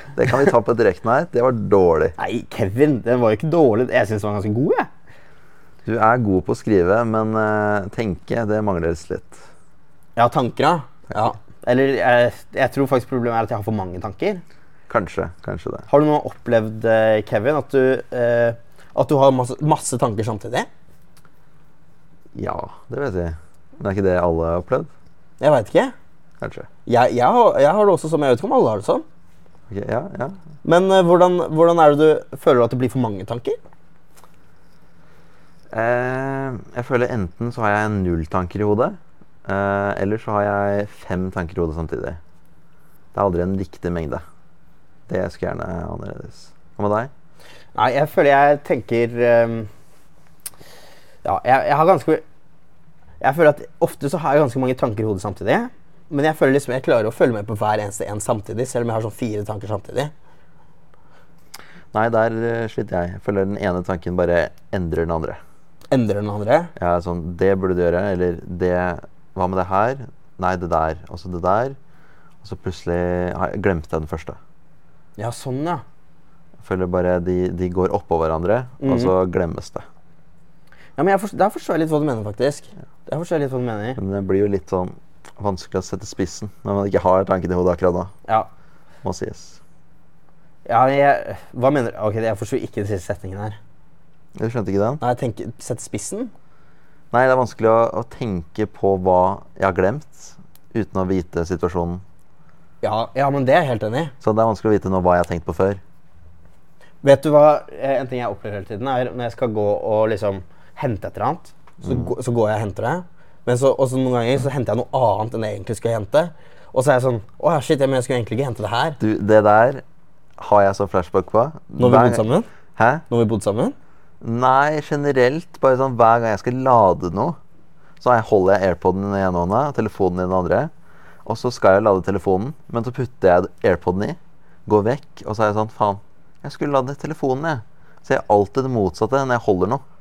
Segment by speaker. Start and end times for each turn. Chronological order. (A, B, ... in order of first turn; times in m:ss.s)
0:00.2-0:02.1 A
0:02.2-0:04.9 B
0:05.8-0:09.4 A
0:10.2-0:14.4 B
0:14.9-0:15.9 A
0:15.9-0:20.7 B
0:22.3-0:24.9 A
0:25.4-0:25.9 B
0:26.4-0:26.7 A
0:26.8-0:29.0 B
0:29.7-0:30.4 A
0:30.6-0:33.6 B
0:35.7-0:42.2 A
0:43.1-0:44.2 A
0:45.1-0:47.1 A
0:47.7-0:49.7 B
0:51.2-0:52.2 B
0:53.2-1:00.1 B
1:01.9-1:05.4 A
1:05.9-1:06.7 B
1:06.8-1:11.8 A
1:12.4-1:14.4 A
1:15.2-1:15.8 B
1:16.6-1:19.8 A
1:18.8-1:19.1 B
1:21.0-1:24.0 B
1:24.0-1:28.1 A
1:29.0-1:29.6 A
1:30.6-1:33.6 B
1:34.4-1:35.0 A
1:35.0-1:36.3 B
1:37.1-1:42.0 A
1:42.8-1:44.1 B
1:44.2-1:45.8 A
1:47.0-1:59.0 B
1:51.8-1:52.1 A
1:59.0-1:59.8 A
2:00.4-2:02.2 A
2:01.8-2:02.5 B
2:02.8-2:03.0 A
2:03.1-2:03.7 B
2:04.2-2:07.4 A
2:08.0-2:10.7 A
2:11.2-2:19.8 A